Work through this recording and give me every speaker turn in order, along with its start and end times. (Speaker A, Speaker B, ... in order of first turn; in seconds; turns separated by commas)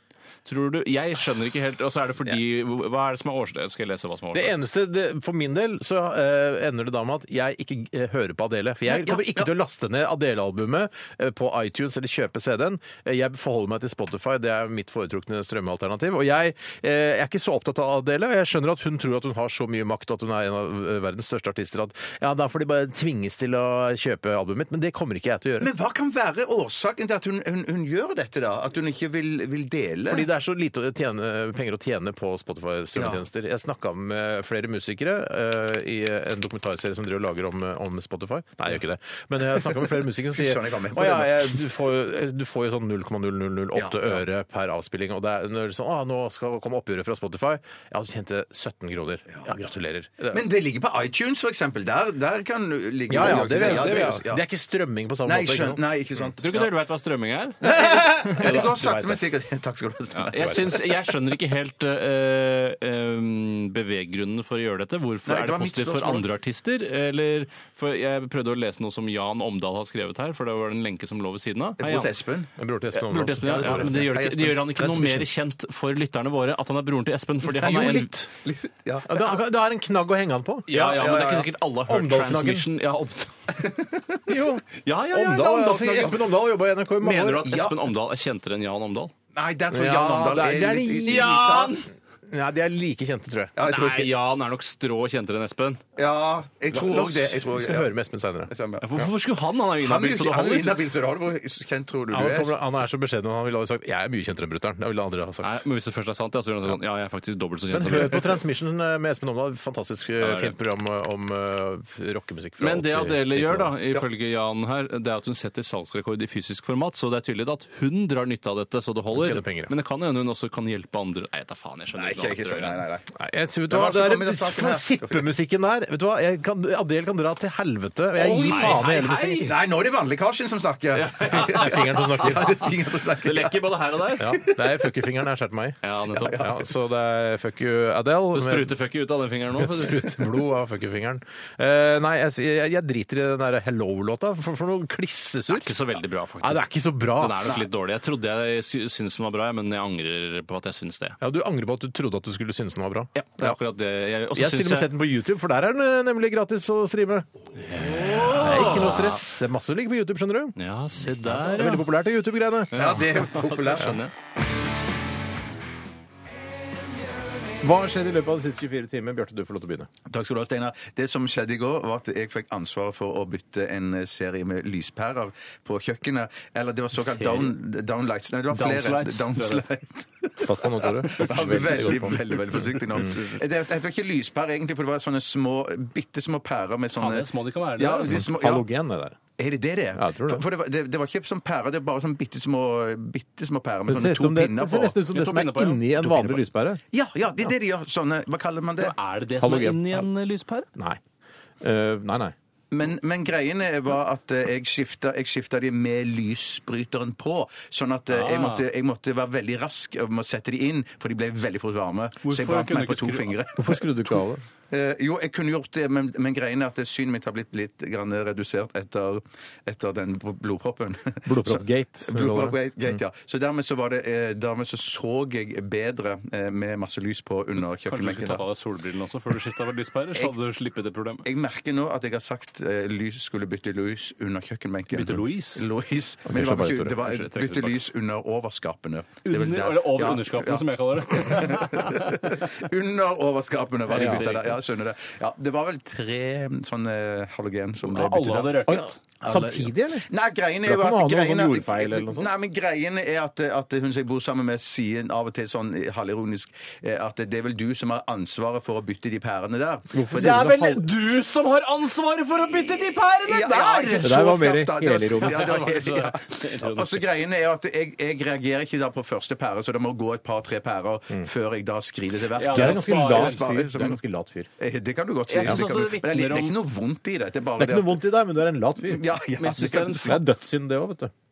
Speaker A: 0.5-4.5, Speaker B: 4.3-25.7, Speaker C: 8.9-9.5, Speaker C: 25.6-30.3, Speaker B: 30.1-50.4, Speaker C: 33.0-33.2, Speaker C: 39.7-41.6, Speaker C: 43.8-44.2, Speaker C: 50.3-54.4, Speaker B: 53.1-55.8, Speaker C: 55.2-56.7, Speaker A: 56.4-58.5, Speaker C: 57.6-61.0, Speaker B: 57.9-59.2, Speaker A: 60.1-72.1, Speaker C: 65.3-66.2, Speaker C: 71.8-72.5, Speaker B: 72.6-74.1, Speaker A: 72.9-78.1, Speaker C: 73.4-74.7, Speaker B: 74.8-75.3, Speaker B: 77.6-78.3, Speaker C: 77.6-79.4, Speaker B: 79.1-80.7, Speaker A: 80.7-83.7, Speaker C: 80.7-81.5, Speaker B: 81.9-82.7, Speaker C: 83.6-84.2, Speaker B: 84.3-87.5, Speaker A: 84.8-86.2, Speaker A: 87.0-89.1, Speaker C: 87.5-87.9, Speaker C: 89.3-91.8, Speaker B: 89.7-91.7, Speaker A: 91.1-91.8, Speaker B: 92.3-93.6, Speaker C: 93.6-94.1, Speaker A: 93.6-95.8, Speaker C: 96.0-97.9, Speaker B: 96.7-99.1, Speaker C: 98.5-98.8, Speaker A: 98.8-100.8, Speaker C: 99.8-102.6, Speaker B: 102.1-105.7, Speaker A: 105.4-108.3, Speaker B: 107.7-114.0, Speaker A: 110.2-110.5, Speaker A: 112.6-122.8, Speaker B: 119.1-119.7, Speaker C: 121.9-123.1, Speaker B: 123.2-129.5, Speaker C: 123.7-125.2, Speaker A: 128.2-129.6, Speaker C: 128.2-128.8, Speaker C: 129.3-133.6, Speaker A: 130.9-132.6, Speaker B: 131.3-132.7, Speaker A: 133.2-134.3, Speaker B: 134.2-138.7, Speaker C: 134.4-134.6, Speaker A: 135.8-136.5, Speaker C: 136.2-136.6, Speaker A: 138.3-140.2, Speaker B: 139.6-145.8, Speaker A: 145.5-151.2, Speaker B: 146.4-147.6, Speaker B: 151.2-153.6, Speaker A: 153.2-154.9, Speaker B: 154.3-157.3, Speaker A: 157.7-159.2, Speaker B: 158.2-160.6, Speaker A: 160.6-161.9, Speaker B: 161.1-162.8, Speaker A: 162.7-164.1, Speaker C: 162.7-164.0, Speaker B: 167.6-169.9, Speaker C: 170.1-188.7, Speaker A: 176.9-177.6, Speaker A: 178.5-179.7, Speaker B: 180.4-183.2, Speaker A: 181.2-182.0, Speaker A: 186.9-188.2, Speaker B: 188.1-189.2, Speaker C: 189.4-194.9, Speaker B: 189.9-190.4, Speaker B: 193.9-196.8, Speaker A: 195.1-196.4, Speaker C: 196.9-198.9, Speaker A: 198.8-200.7, Speaker B: 199.4-200.1, Speaker B: 200.8-201.0, Speaker B: 201.6-202.3, Speaker C: 202.7-213.9, Speaker A: 208.1-208.6, Speaker A: 212.2-213.3, Speaker B: 213.6-214.4, Speaker C: 214.7-228.4, Speaker B: 221.3-222.6, Speaker A: 227.9-231.2, Speaker C: 231.2-260.5, Speaker A: 234.9-235.7, Speaker B: 236.3-237.0, Speaker A: 237.0-237.8, Speaker A: 239.2-242.4, Speaker A: 243.9-244.6, Speaker B: 243.9-244.3, Speaker A: 247.9-249.0, Speaker B: 248.7-250.1, Speaker B: 250.7-252.3, Speaker B: 259.9-260.8, Speaker A: 260.1-264.2, Speaker C: 263.2-274.0, Speaker B: 264.0-265.6, Speaker A: 265.2-267.1, Speaker A: 272.4-273.4, Speaker B: 272.5-274.5, Speaker C: 274.6-278.0, Speaker A: 275.3-276.6, Speaker B: 277.6-279.0, Speaker C: 278.9-280.2, Speaker A: 279.4-280.2, Speaker B: 280.0-281.1